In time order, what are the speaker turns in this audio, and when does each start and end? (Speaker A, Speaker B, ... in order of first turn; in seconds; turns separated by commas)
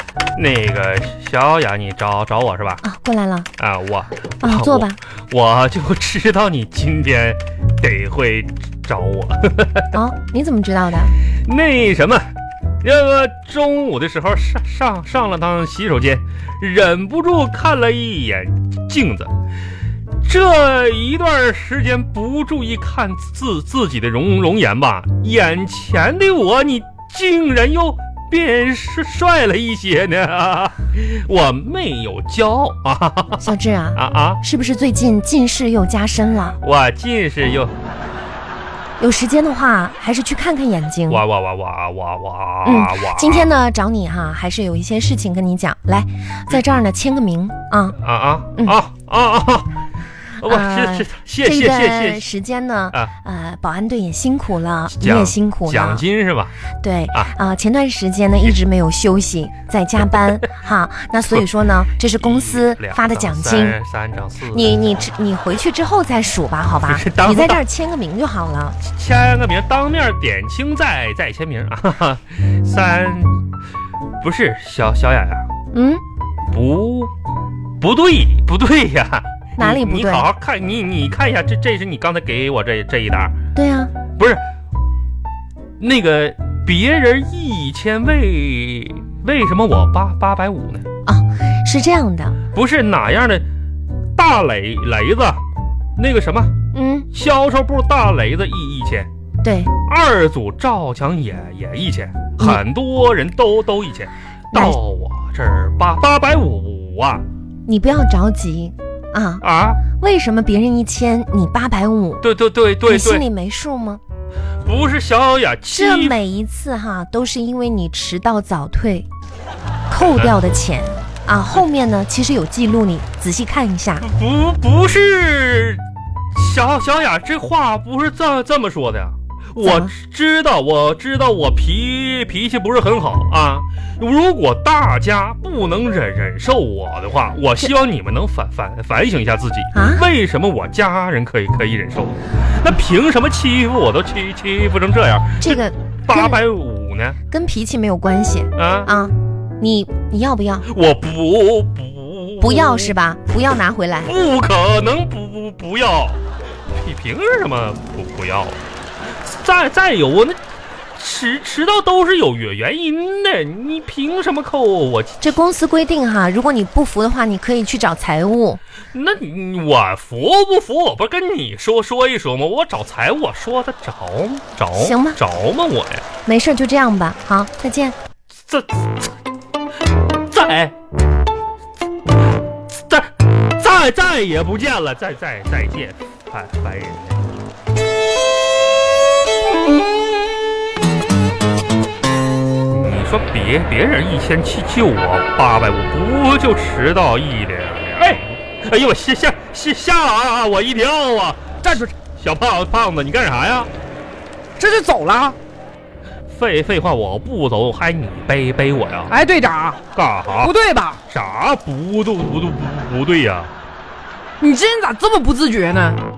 Speaker A: 0.3-2.8, Speaker B: 2.8-3.5, Speaker A: 3.6-9.9, Speaker B: 4.4-5.0, Speaker B: 9.9-11.2, Speaker A: 11.4-12.3, Speaker A: 12.8-19.3, Speaker A: 20.2-34.4, Speaker B: 33.4-36.6, Speaker A: 36.6-37.7, Speaker B: 39.0-41.2, Speaker A: 41.1-43.5, Speaker B: 42.6-48.0, Speaker A: 48.0-49.7, Speaker A: 50.4-52.3, Speaker B: 50.4-56.0, Speaker A: 54.9-56.5, Speaker B: 56.8-63.8, Speaker A: 62.2-64.8, Speaker B: 64.5-68.8, Speaker A: 66.8-67.6, Speaker A: 68.8-73.4, Speaker A: 74.2-75.5, Speaker B: 75.7-76.0, Speaker A: 76.5-77.1, Speaker A: 77.8-83.3, Speaker B: 79.6-80.2, Speaker B: 83.5-83.9, Speaker A: 84.2-84.4, Speaker A: 85.8-90.8, Speaker B: 91.0-92.4, Speaker A: 92.5-93.4, Speaker A: 94.1-95.4, Speaker A: 96.0-96.5, Speaker B: 96.7-97.1, Speaker A: 97.1-99.1, Speaker B: 99.4-99.7, Speaker A: 99.8-107.2, Speaker B: 107.7-112.2, Speaker A: 109.4-109.8, Speaker A: 112.2-113.2, Speaker B: 112.8-114.0, Speaker A: 114.6-116.2, Speaker B: 115.7-119.1, Speaker B: 119.9-124.0, Speaker A: 120.0-120.3, Speaker A: 124.0-125.8, Speaker A: 126.3-147.2, Speaker B: 129.6-129.9, Speaker B: 139.7-140.0, Speaker B: 145.4-146.4, Speaker B: 147.3-150.7, Speaker A: 148.6-148.9, Speaker A: 150.7-152.9, Speaker B: 152.4-154.1, Speaker A: 154.0-156.2, Speaker A: 156.8-158.6, Speaker A: 159.2-160.4, Speaker A: 160.9-165.1, Speaker B: 165.2-168.6, Speaker A: 168.9-176.0, Speaker B: 174.7-175.2, Speaker B: 176.2-177.9, Speaker A: 178.4-179.1, Speaker A: 180.3-180.7, Speaker A: 182.9-187.2, Speaker A: 192.7-203.7, Speaker C: 201.6-201.9, Speaker C: 204.6-205.4, Speaker A: 206.3-209.1, Speaker C: 209.1-209.8, Speaker A: 209.9-210.5, Speaker C: 210.4-211.0, Speaker A: 211.1-213.5, Speaker C: 214.4-216.0